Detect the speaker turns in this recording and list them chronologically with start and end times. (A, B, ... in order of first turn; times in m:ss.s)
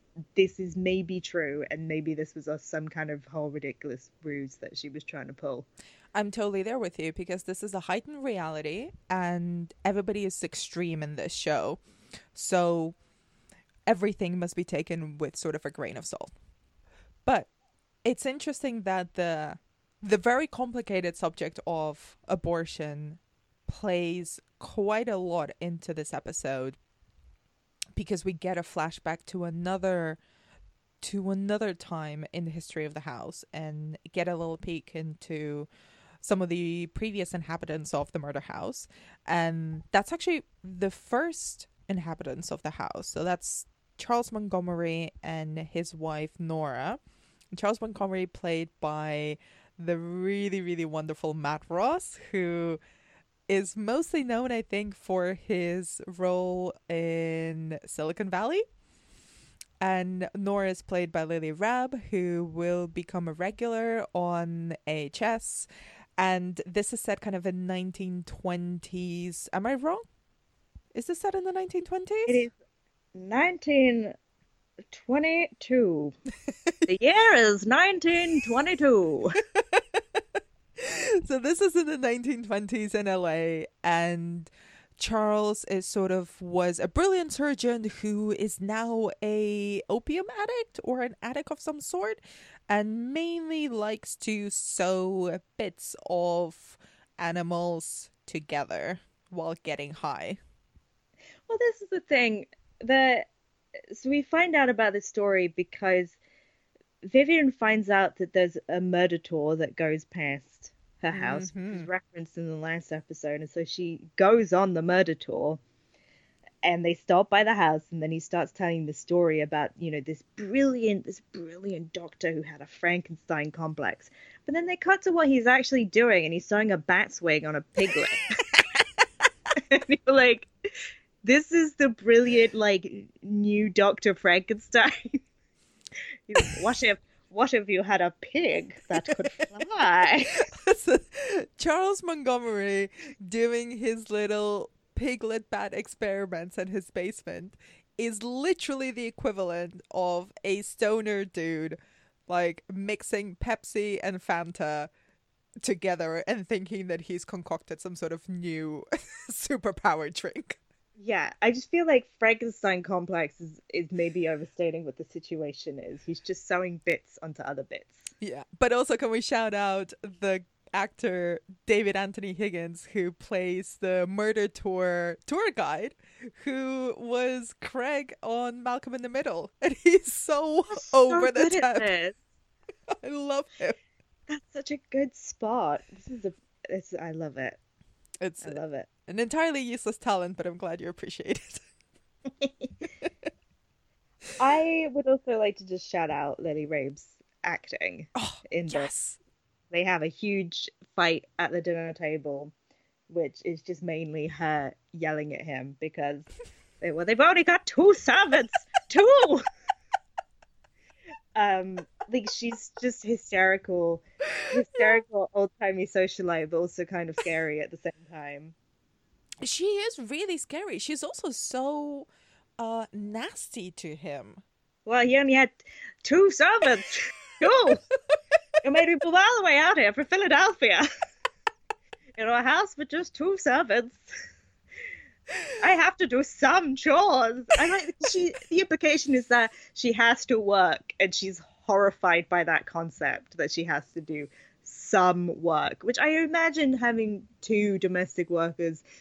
0:00.4-0:05.7 A
0:06.2-0:11.8 B
0:12.3-0:13.0 B
0:13.9-0:16.3 B
0:17.2-0:17.5 B
0:18.0-0:26.8 B
0:28.0-0:30.2 B
0:31.0-0:35.7 B
0:36.2-0:47.0 B
0:47.5-0:52.8 B
0:53.5-0:58.6 B
0:59.8-1:10.0 B
1:10.9-1:12.5 B
1:12.3-1:12.5 A
1:13.1-1:14.1 A
1:14.9-1:16.2 A
1:16.9-1:19.3 A
1:19.6-1:20.2 B
1:20.8-1:40.4 B
1:41.5-1:43.3 A
1:43.9-1:46.2 A
1:47.0-1:55.6 A
1:51.1-1:51.9 B
1:56.6-2:08.3 A
2:09.6-2:10.5 A
2:11.2-2:15.2 A
2:16.3-2:20.5 A
2:19.0-2:19.5 B
2:20.4-2:31.8 B
2:32.3-2:34.9 B
2:35.6-2:40.6 B
2:41.0-2:48.1 A
2:48.2-3:01.9 B
3:00.7-3:02.2 A
3:03.0-3:03.8 B
3:04.3-3:07.6 A
3:08.2-3:11.6 B
3:08.4-3:08.9 A
3:12.4-3:12.7 A
3:13.0-3:13.3 B
3:14.4-3:18.9 A
3:18.2-3:19.2 B
3:19.7-3:22.5 A
3:23.1-3:26.3 A
3:26.8-3:29.4 A
3:31.4-3:38.6 A
3:34.3-3:35.0 B
3:39.4-3:42.1 B
3:42.6-3:44.4 B
3:44.9-3:47.8 A
3:48.6-3:50.9 A
3:52.2-3:54.0 A
3:55.6-4:08.8 A